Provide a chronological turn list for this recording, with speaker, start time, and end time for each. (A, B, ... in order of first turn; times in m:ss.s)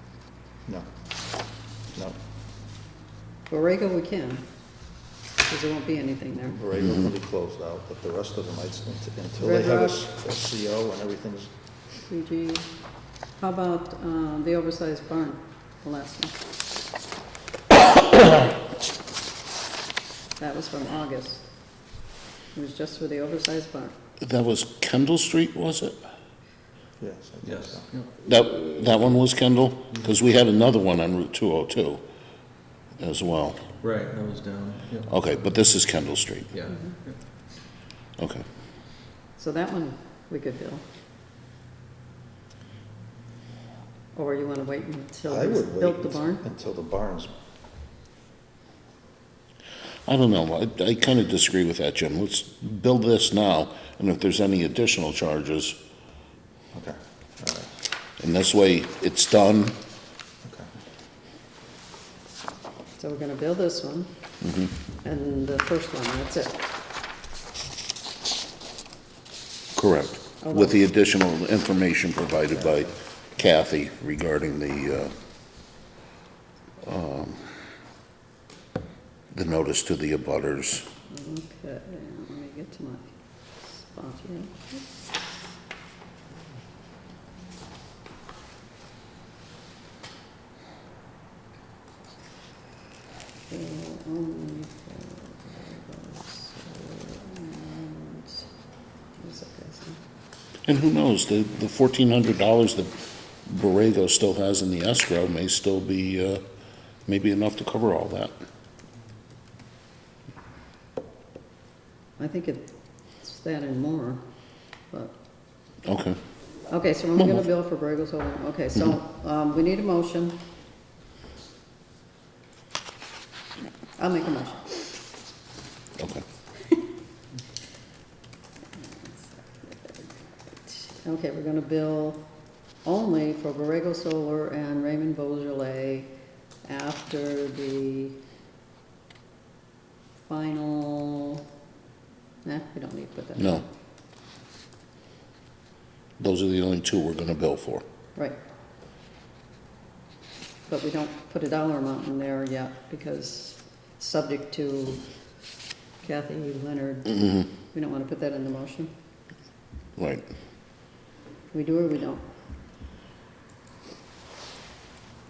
0:03.5-0:04.5 A
0:05.5-0:06.6 A
0:06.5-0:11.5 B
0:09.4-0:10.0 A
0:12.1-0:12.7 A
0:13.4-0:16.4 A
0:20.4-0:21.5 A
0:22.5-0:24.0 A
0:24.2-0:26.0 C
0:27.0-0:27.9 B
0:27.4-0:28.1 D
0:28.2-0:32.0 C
0:33.0-0:33.6 C
0:33.8-0:35.1 D
0:35.1-0:36.5 C
0:36.5-0:37.2 D
0:38.2-0:38.4 C
0:39.4-0:40.8 A
0:44.2-0:46.4 A
0:45.3-0:47.3 B
0:50.1-0:55.8 C
0:56.7-0:57.7 B
0:58.2-0:59.8 C
1:00.4-1:00.7 B
1:03.0-1:04.1 A
1:04.4-1:04.7 C
1:05.0-1:06.6 A
1:09.8-1:15.1 C
1:10.4-1:10.8 A
1:16.8-1:17.5 C
1:19.3-1:20.9 C
1:21.1-1:24.8 A
1:33.5-1:38.5 A
1:39.2-1:40.0 A
1:40.7-1:42.9 C
1:43.5-1:46.4 C
1:47.1-1:48.3 C
1:52.2-1:54.2 A
1:55.8-1:56.2 C
1:56.7-2:00.4 A
1:57.2-1:57.4 C
2:04.0-2:04.8 A
2:06.0-2:06.2 C
2:08.8-2:10.1 A
2:10.6-2:12.3 A
2:12.8-2:18.2 A
2:20.3-2:21.4 A
2:22.4-2:23.7 A
2:23.4-2:23.6 C
2:26.2-2:27.8 C
2:30.7-2:35.1 A
2:36.0-2:38.9 A
2:40.0-2:40.3 C
2:41.5-2:42.3 A